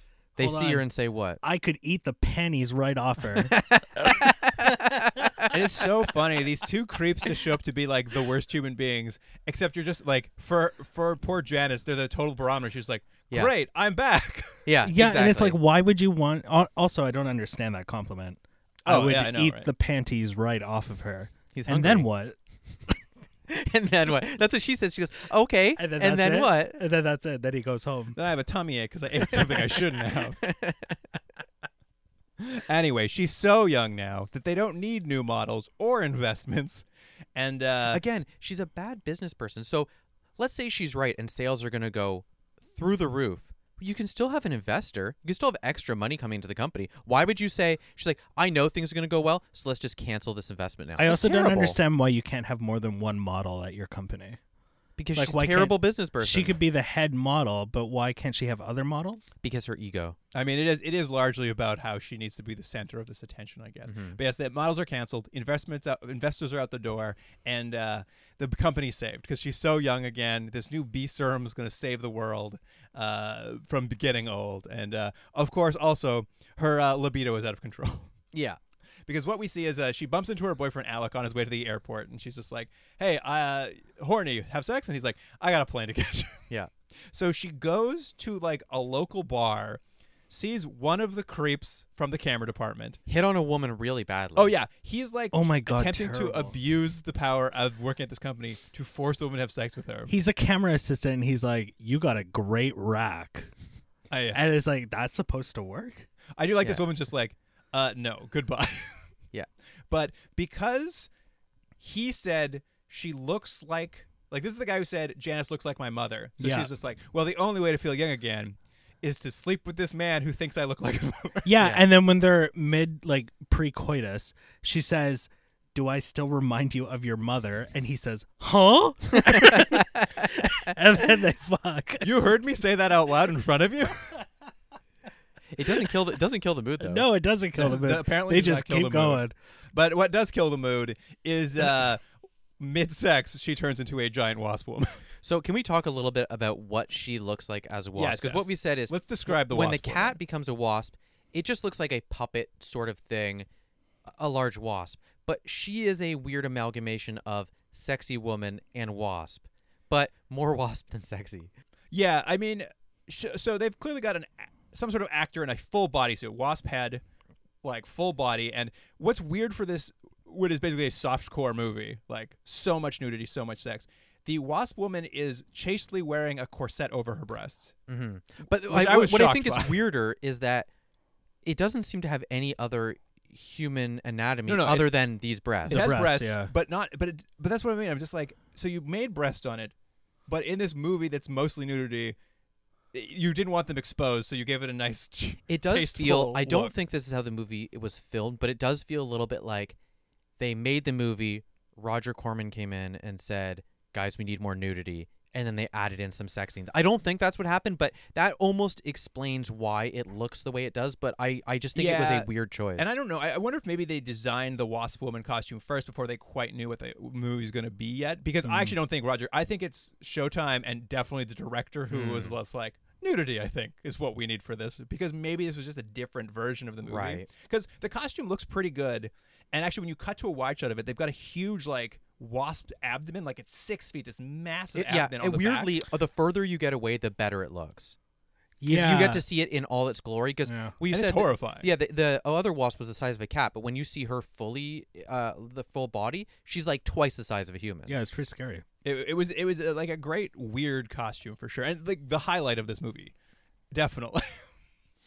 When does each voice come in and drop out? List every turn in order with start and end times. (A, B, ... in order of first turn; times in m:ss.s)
0:00.4-0:00.8 A
0:00.4-0:01.4 B
0:01.4-0:03.6 A
0:03.4-0:05.6 B
0:05.5-0:14.6 C
0:14.6-0:15.6 B
0:14.8-0:22.4 A
0:18.8-0:19.7 C
0:21.5-0:22.0 B
0:23.5-0:26.8 B
0:25.8-0:28.2 A
0:28.1-0:30.4 C
0:29.3-0:31.0 B
0:32.4-0:38.0 C
0:37.9-0:51.8 B
0:51.0-0:54.4 A
0:55.0-0:56.6 B
0:55.2-0:59.3 A
0:59.4-1:00.2 B
1:00.3-1:18.1 C
1:03.9-1:04.2 B
1:18.3-1:18.6 B
1:19.1-1:26.4 C
1:27.1-1:33.0 C
1:33.1-1:34.5 B
1:34.3-1:40.1 C
1:35.3-1:36.5 A
1:40.1-1:43.5 A
1:44.1-1:44.4 C
1:44.3-1:46.1 A
1:46.4-1:49.0 C
1:49.9-1:51.1 C
1:51.8-2:01.5 C
1:56.4-1:56.7 A
2:01.4-2:12.1 A
2:09.2-2:10.1 B
2:12.0-2:14.1 C
2:15.5-2:17.1 B
2:16.8-2:19.3 A
2:17.6-2:19.2 C
2:19.7-2:22.0 C
2:22.6-2:25.0 C
2:25.2-2:33.4 B
2:27.9-2:30.2 C
2:34.1-2:41.5 B
2:41.9-2:47.0 C
2:47.6-2:57.7 C
2:57.9-3:00.7 B
2:58.6-2:59.8 C
3:01.4-3:06.0 B
3:04.5-3:04.9 C
3:05.7-3:09.7 C
3:05.7-3:06.5 A
3:10.3-3:12.2 C
3:12.9-3:16.7 C
3:15.5-3:19.8 B
3:20.4-3:32.9 B
3:31.7-3:55.7 C
3:41.9-3:42.4 B
3:46.8-3:47.2 B
3:54.7-3:58.0 B
3:58.6-3:59.2 A
3:58.7-4:08.0 B
4:00.4-4:00.7 A
4:00.9-4:01.7 C
4:07.9-4:08.6 A
4:08.8-4:13.1 C
4:13.7-4:14.4 C